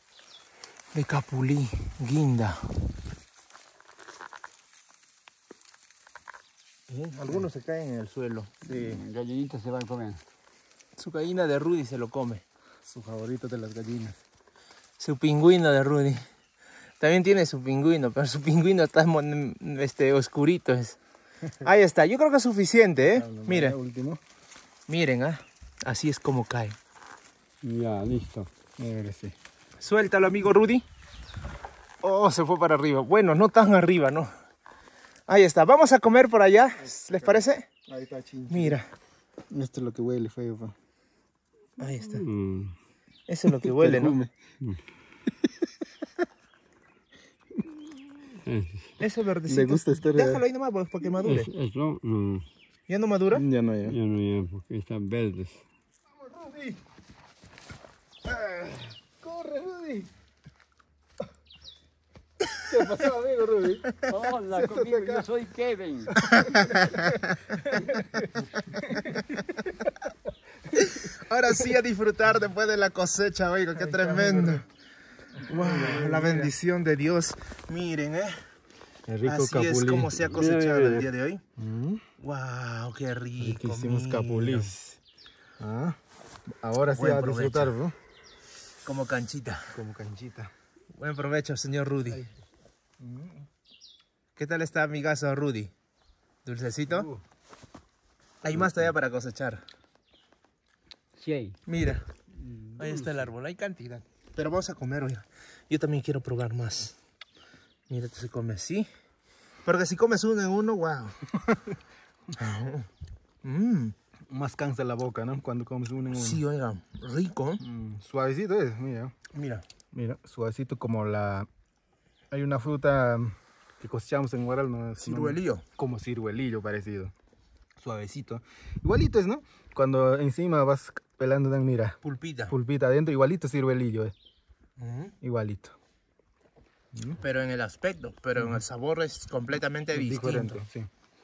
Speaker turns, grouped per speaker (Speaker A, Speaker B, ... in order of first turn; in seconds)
Speaker A: 0.9-2.9, 6.9-8.6, 11.0-12.4, 15.0-16.2, 17.0-21.0, 21.6-23.8, 24.9-26.8, 29.8-30.9, 32.0-34.3, 35.3-37.7, 38.5-38.9, 41.8-42.2, 43.3-44.2, 49.0-51.5, 52.9-53.5, 66.4-67.1, 70.8-74.6, 75.5-78.4, 79.2-81.4, 82.2-84.7, 86.9-87.8, 88.8-89.7, 91.0-92.3, 94.4-95.7, 96.5-97.1, 98.4-99.6, 101.7-102.0, 102.8-106.9, 107.9-108.9, 109.6-111.2, 112.4-112.9, 113.4-114.0, 116.1-117.6, 119.3-119.6, 125.0-125.6, 132.0-132.5, 134.8-135.1, 137.2-140.6
Speaker B: 7.1-7.5, 8.6-9.0, 12.9-14.2, 23.0-24.2, 28.8-29.4, 36.8-38.8, 39.5-40.8, 43.6-44.4, 49.4-50.5, 53.3-54.0, 56.1-56.8, 58.2-60.1, 62.6-65.3, 66.1-69.7, 73.9-74.6, 75.4-76.6, 79.1-80.2, 81.6-82.0, 83.4-85.0, 85.6-86.0, 86.6-88.0, 89.7-90.5, 93.0-93.5, 96.9-97.2, 111.3-111.8, 114.3-116.5, 117.6-119.2, 119.9-121.5, 122.3-127.1, 127.8-134.1, 135.2-135.8, 136.9-137.2, 138.4-138.6, 139.9-140.9
Speaker C: 8.7-10.2, 27.6-28.5, 42.1-42.7, 48.4-48.9, 51.2-52.5, 53.9-55.6, 64.1-66.1, 80.2-81.1, 101.2-101.6, 102.4-103.3